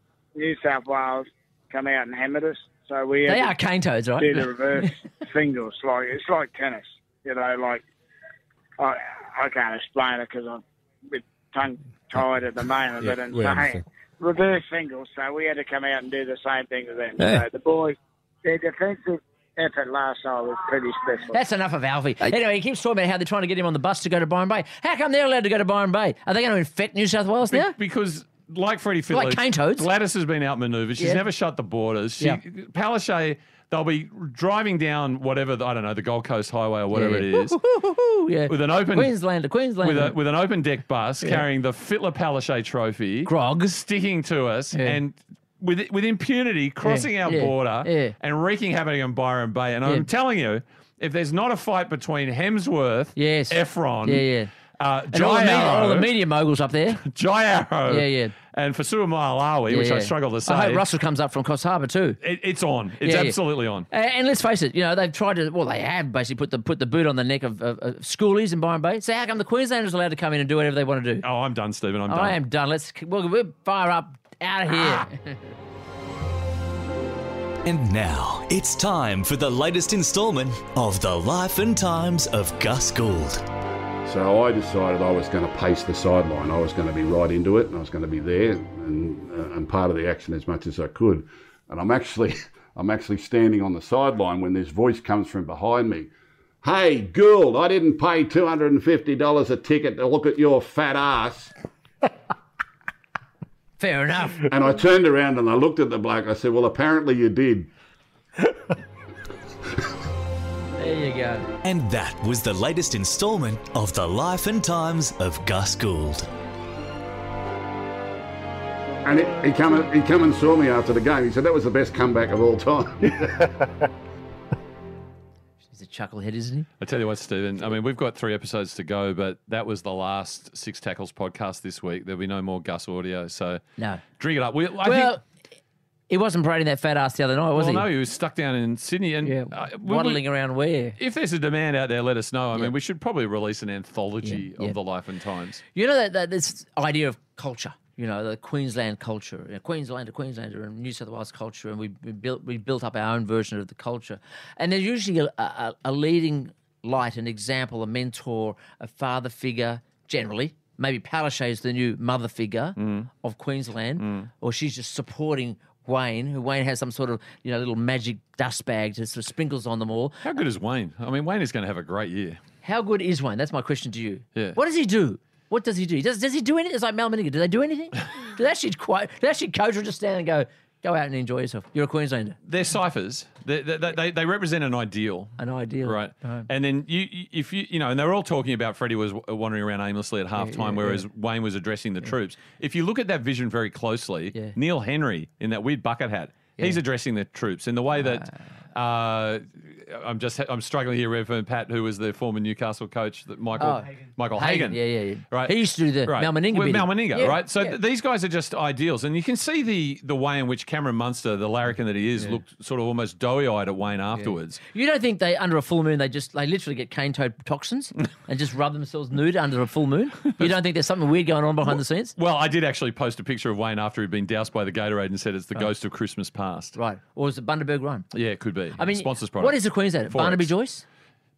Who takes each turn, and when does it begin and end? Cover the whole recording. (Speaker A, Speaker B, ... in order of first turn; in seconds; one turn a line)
Speaker A: 0.3-3.5
Speaker B: 3.2-4.9
Speaker A: 4.2-7.8
Speaker A: 8.8-21.4
Speaker B: 21.3-27.7
Speaker C: 27.5-37.6
Speaker B: 29.1-29.9
Speaker B: 36.9-40.1
Speaker C: 38.5-39.1
Speaker C: 39.8-56.1
Speaker B: 43.2-43.8
Speaker B: 44.7-45.0
Speaker B: 46.8-48.1
Speaker B: 53.1-54.5
Speaker B: 55.1-57.0
Speaker C: 57.0-60.8
Speaker B: 57.9-58.3
Speaker B: 59.7-62.2
Speaker C: 62.2-63.9
Speaker B: 63.0-63.4
Speaker B: 63.9-71.2
Speaker C: 71.2-72.4
Speaker B: 72.1-75.3
Speaker D: 77.6-83.4
Speaker E: 84.0-96.1
Speaker E: 96.6-101.5
Speaker B: 103.8-104.4
Speaker E: 104.5-107.7
Speaker B: 110.8-111.5
Speaker D: 111.6-116.3
Speaker E: 119.0-123.5
Speaker B: 125.7-126.7
Speaker C: 126.8-133.6
Speaker B: 133.8-134.0
Speaker C: 134.2-135.1
Speaker B: 134.8-135.2
Speaker B: 136.1-137.9
Speaker C: 137.5-140.2
Speaker B: 139.2-141.0
Speaker C: 141.0-145.6
Speaker B: 144.2-144.7
Speaker B: 145.7-170.2
Speaker C: 162.8-163.1
Speaker C: 164.0-164.3
Speaker C: 170.2-172.4
Speaker B: 172.6-182.4
Speaker C: 182.4-214.6
Speaker B: 185.4-186.4
Speaker B: 190.3-191.0
Speaker B: 203.6-207.8
Speaker B: 214.2-222.1
Speaker C: 221.7-226.8
Speaker B: 226.8-228.1
Speaker C: 228.1-230.5
Speaker B: 228.8-230.8